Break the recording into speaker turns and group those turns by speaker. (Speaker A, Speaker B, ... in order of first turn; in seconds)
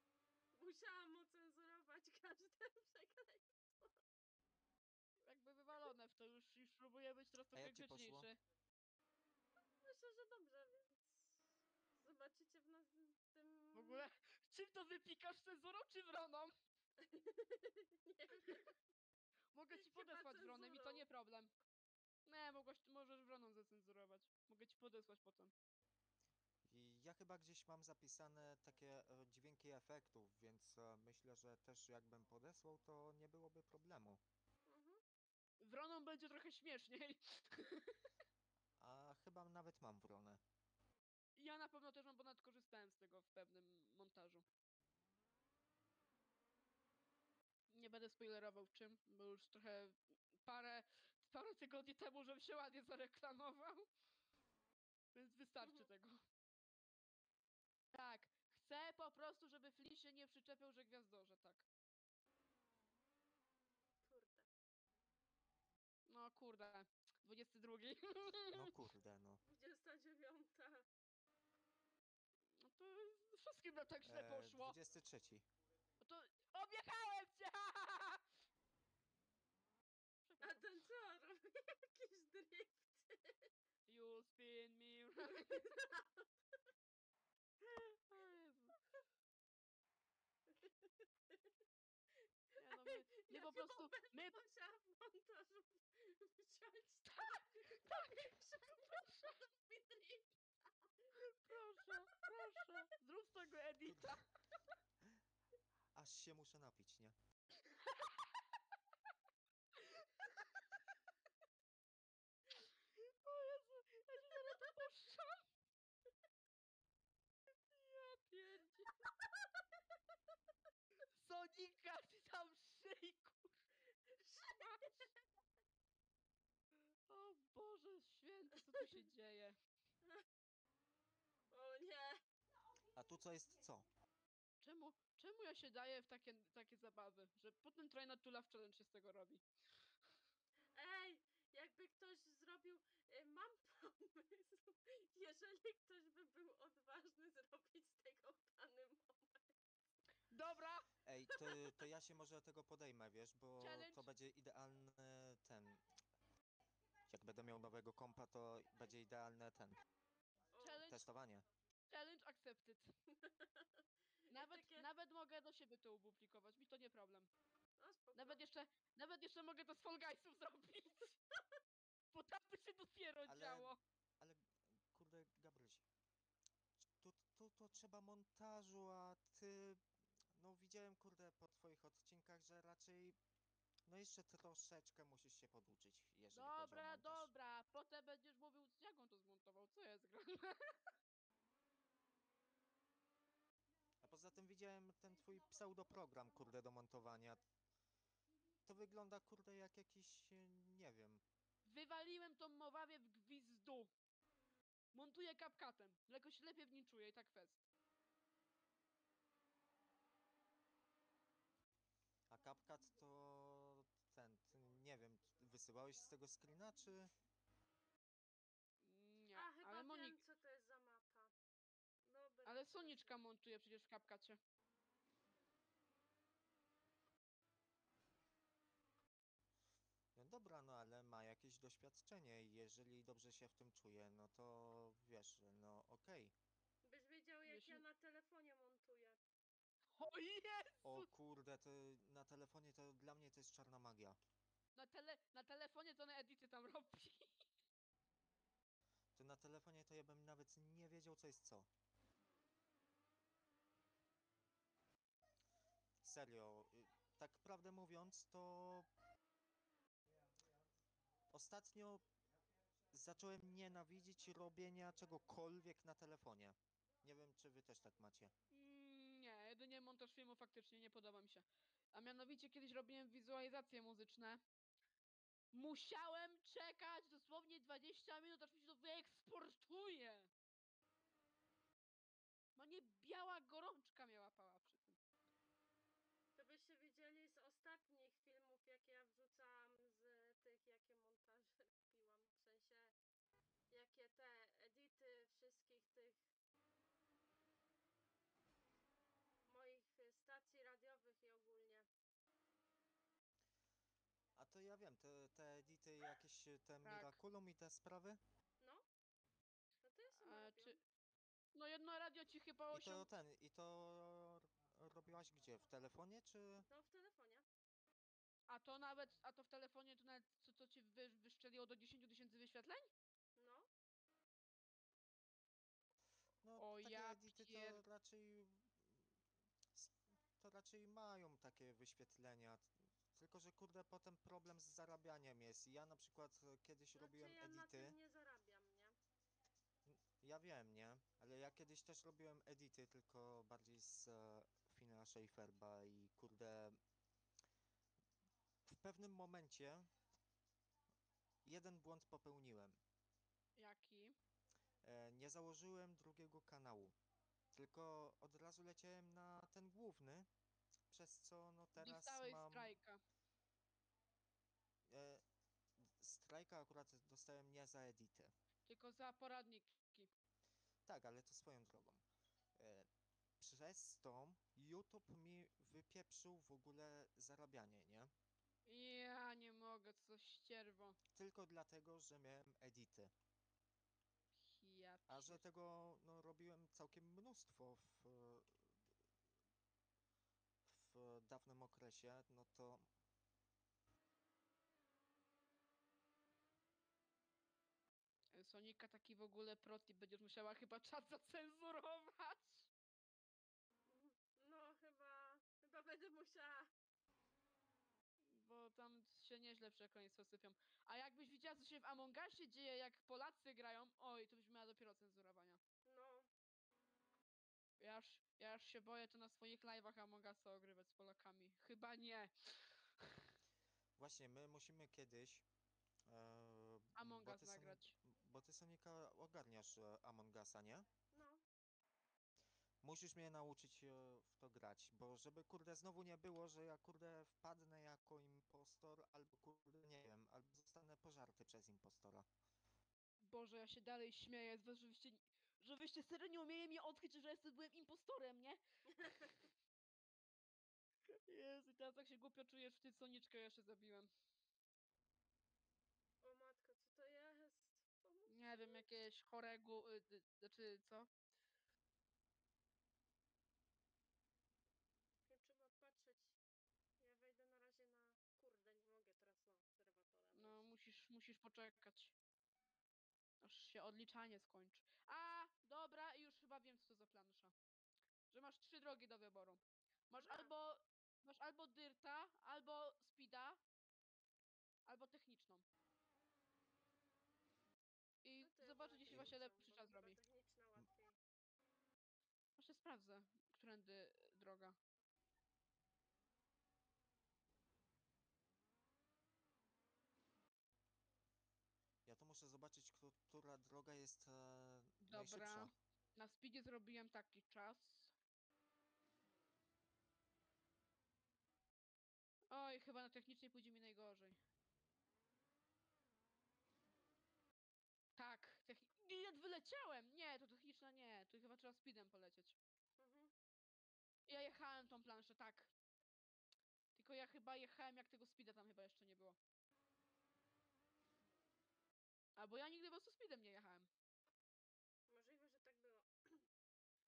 Speaker A: 0.5-4.0, 9.8-11.4, 12.0-14.1, 17.0-18.8, 19.8-21.1, 34.7-35.0, 64.0-64.5, 69.5-70.8, 80.4-83.5, 85.6-86.2, 90.5-90.8, 92.5-100.3, 118.3-119.1, 124.1-125.1, 131.5-132.2, 140.7-149.5, 151.3-151.8, 160.5-160.8, 163.1-164.9, 167.8-168.4, 219.3-221.3, 222.1-223.2, 236.8-239.2, 286.4-292.9, 293.7-296.2, 299.5-301.9, 309.8-310.8, 316.6-317.4, 323.4-323.7, 336.9-339.0, 403.9-406.7, 415.9-416.3, 431.1-431.4, 449.0-449.3, 456.2-458.8, 465.3-466.4, 467.0-470.6, 480.2-480.5, 488.4-491.2, 523.0-523.3, 535.1-536.5
Speaker B: 5.3-8.4, 13.7-16.5, 19.5-21.5, 22.3-25.5, 35.6-38.1, 41.4-44.5, 47.7-53.9, 55.1-56.2, 57.9-61.7, 66.1-68.8, 72.6-74.8, 76.0-78.2, 80.3-80.7, 83.9-85.9, 87.8-88.8, 92.6-94.4, 97.1-99.4, 101.1-104.3, 107.7-108.4, 109.8-110.4, 112.6-115.4, 117.7-118.6, 121.1-123.5, 124.5-125.0, 127.1-129.6, 134.6-139.4, 150.3-150.9, 153.6-154.1, 160.6-161.0, 161.9-162.9, 164.3-167.3, 168.2-171.2, 172.1-173.8, 186.3-190.8, 201.7-203.9, 204.9-207.6, 218.8-220.2, 222.5-224.4, 237.5-237.8, 239.9-241.1, 244.8-247.4, 268.5-274.4, 275.5-280.3, 282.6-285.0, 306.8-307.2, 310.2-310.8, 311.6-313.1, 318.5-322.9, 326.6-327.8, 353.6-354.2, 361.8-363.0, 368.7-370.1, 378.7-381.0, 384.4-385.4, 398.3-402.7, 408.3-415.6, 417.8-423.3, 427.0-427.9, 443.2-449.4, 451.3-454.1, 458.3-461.1, 470.4-472.1, 473.4-477.5, 478.3-483.6, 484.9-485.6, 488.2-490.2, 492.6-494.8, 505.0-508.1, 512.5-514.4, 518.2-522.6, 524.3-525.7, 527.0-529.4, 532.4-533.9
Speaker C: 7.5-8.3, 26.6-34.2, 38.8-40.4, 68.5-69.4, 74.0-75.5, 103.8-104.2, 106.0-107.2, 132.9-133.9, 151.0-155.8, 157.1-159.8, 160.9-161.5, 173.3-175.8, 176.8-179.8, 180.3-183.2, 183.9-187.3, 194.0-197.4, 198.7-201.2, 212.3-217.1, 230.2-236.3, 240.8-244.2, 249.2-251.7, 256.0-258.9, 261.3-262.0, 262.9-268.3, 304.4-308.2, 312.7-316.7, 326.4-329.1, 329.7-338.0, 339.9-346.8, 348.6-349.9, 351.4-352.8, 354.8-357.0, 357.5-360.3, 360.9-362.8, 364.9-365.2, 365.8-368.3, 370.9-372.0, 372.6-372.9, 373.4-378.1, 381.1-383.1, 385.1-388.8, 390.6-392.9, 424.0-425.5, 426.1-430.9, 432.8-442.3, 502.1-505.7